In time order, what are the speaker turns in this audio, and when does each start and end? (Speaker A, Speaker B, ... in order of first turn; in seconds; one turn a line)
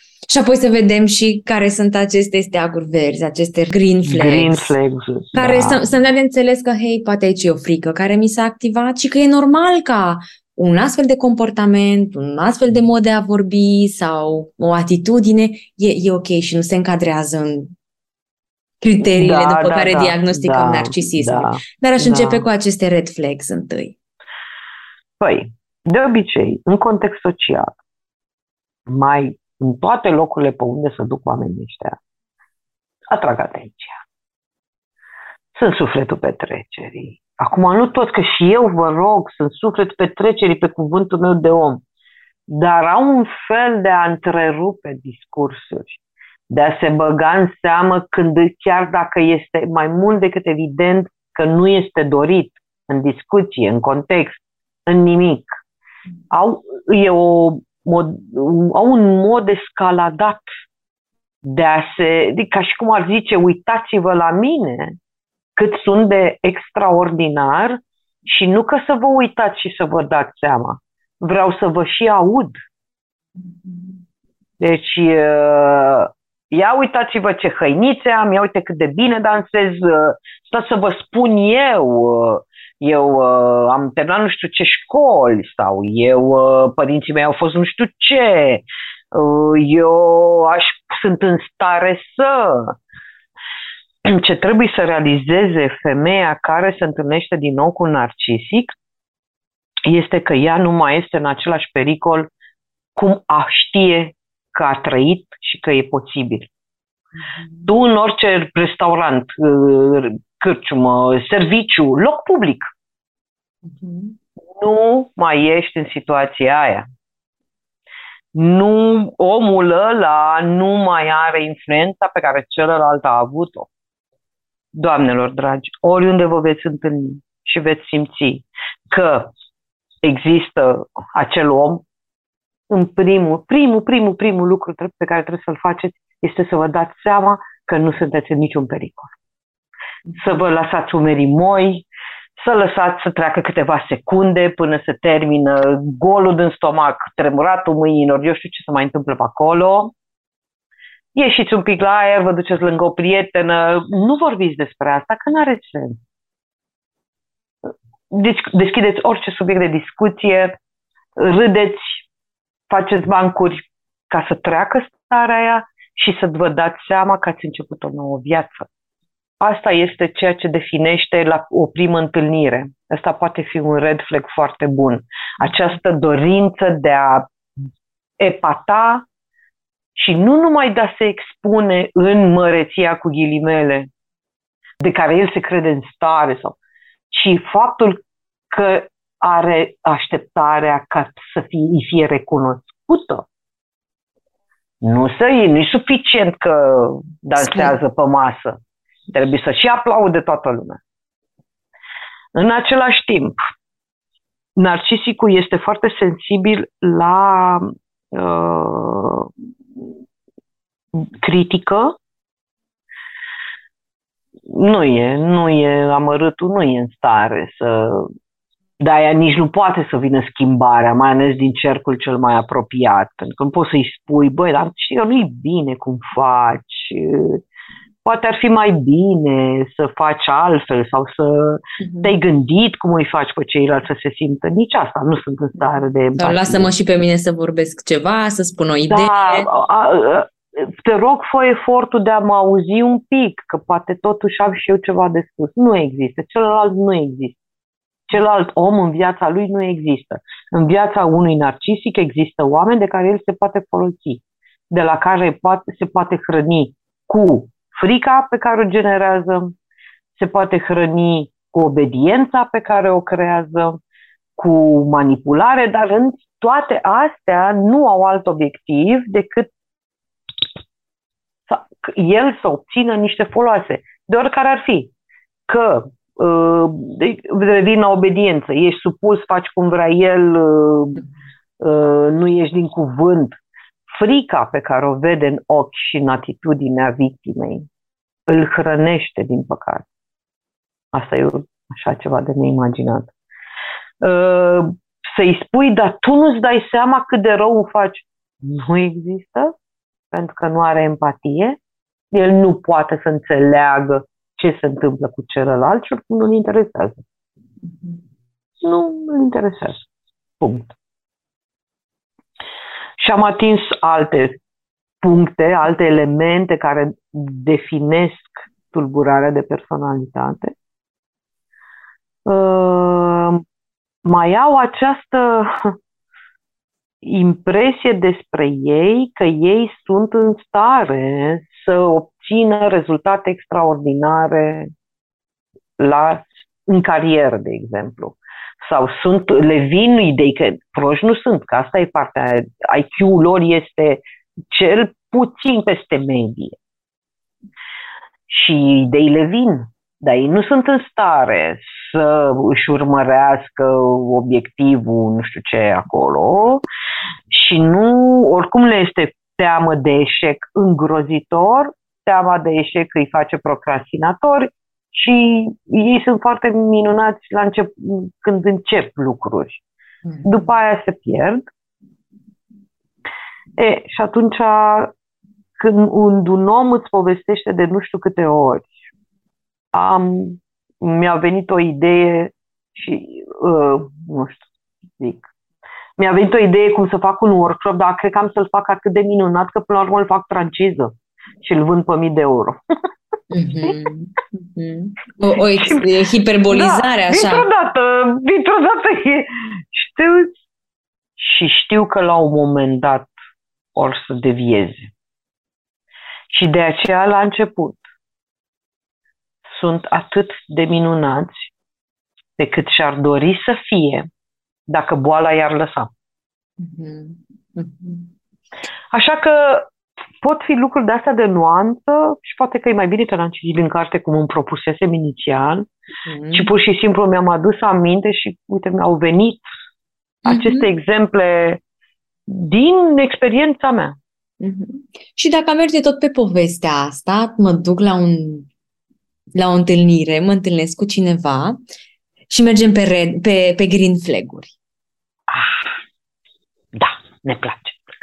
Speaker A: 0.3-4.7
Speaker B: 4.0-5.9
Speaker A: 5.3-17.7
Speaker A: 18.8-23.9
Speaker B: 19.0-22.4
Speaker B: 25.2-27.7
Speaker B: 28.9-32.0
Speaker B: 33.1-34.0
Speaker B: 35.5-41.8
Speaker B: 42.5-55.5
Speaker B: 56.3-60.5
Speaker B: 61.4-65.0
Speaker B: 65.5-72.5
Speaker B: 74.6-92.8
Speaker B: 94.0-98.7
Speaker B: 99.8-102.3
Speaker B: 103.0-106.5
Speaker B: 107.6-112.7
Speaker A: 113.7-114.1
Speaker B: 114.6-116.8
Speaker B: 118.3-123.7
Speaker B: 124.8-129.3
Speaker B: 130.0-131.8
Speaker B: 132.7-139.1
Speaker B: 140.2-141.8
Speaker B: 142.4-149.9
Speaker B: 151.1-156.0
Speaker B: 158.1-160.6
Speaker B: 161.2-162.0
Speaker B: 162.7-168.7
Speaker B: 169.4-177.3
Speaker B: 178.2-179.1
Speaker B: 180.0-183.9
Speaker B: 184.8-186.6
Speaker B: 187.1-193.2
Speaker B: 194.8-198.6
Speaker A: 197.5-197.7
Speaker B: 199.1-200.8
Speaker B: 202.3-203.4
Speaker B: 204.6-209.3
Speaker B: 210.9-212.0
Speaker B: 214.5-218.1
Speaker B: 218.8-227.4
Speaker B: 228.0-236.7
Speaker A: 236.2-239.5
Speaker B: 238.9-247.4
Speaker B: 248.1-259.5
Speaker B: 260.1-263.8
Speaker B: 264.4-269.5
Speaker B: 271.5-274.9
Speaker B: 275.5-281.1
Speaker B: 281.6-287.7
Speaker B: 288.3-289.9
Speaker B: 290.9-293.1
Speaker B: 294.0-299.5
Speaker B: 300.1-301.6
Speaker B: 302.1-307.0
Speaker B: 308.6-309.9
Speaker B: 310.4-310.7
Speaker B: 313.0-314.4
Speaker B: 315.0-320.5
Speaker B: 322.2-323.4
Speaker B: 324.0-325.8
Speaker B: 327.0-334.7
Speaker B: 335.8-346.6
Speaker B: 348.3-356.6
Speaker B: 357.3-369.6
Speaker A: 370.1-370.3
Speaker B: 370.2-371.4
Speaker B: 373.6-374.9
Speaker B: 375.6-378.8
Speaker B: 379.7-385.3
Speaker B: 386.0-392.6
Speaker A: 393.3-397.5
Speaker B: 395.5-395.9
Speaker B: 396.5-400.3
Speaker B: 401.2-403.1
Speaker B: 403.8-404.9
Speaker B: 406.3-407.8
Speaker B: 409.5-411.5
Speaker B: 412.4-414.1
Speaker B: 414.7-415.9
Speaker A: 416.6-418.1
Speaker B: 418.9-419.7
Speaker B: 420.2-425.7
Speaker A: 426.1-426.5
Speaker B: 426.3-429.5
Speaker B: 430.2-431.6
Speaker A: 430.2-430.6
Speaker B: 432.3-434.0
Speaker A: 434.4-438.5
Speaker A: 439.3-441.6
Speaker A: 442.3-444.5
Speaker B: 445.3-445.7
Speaker B: 446.7-447.8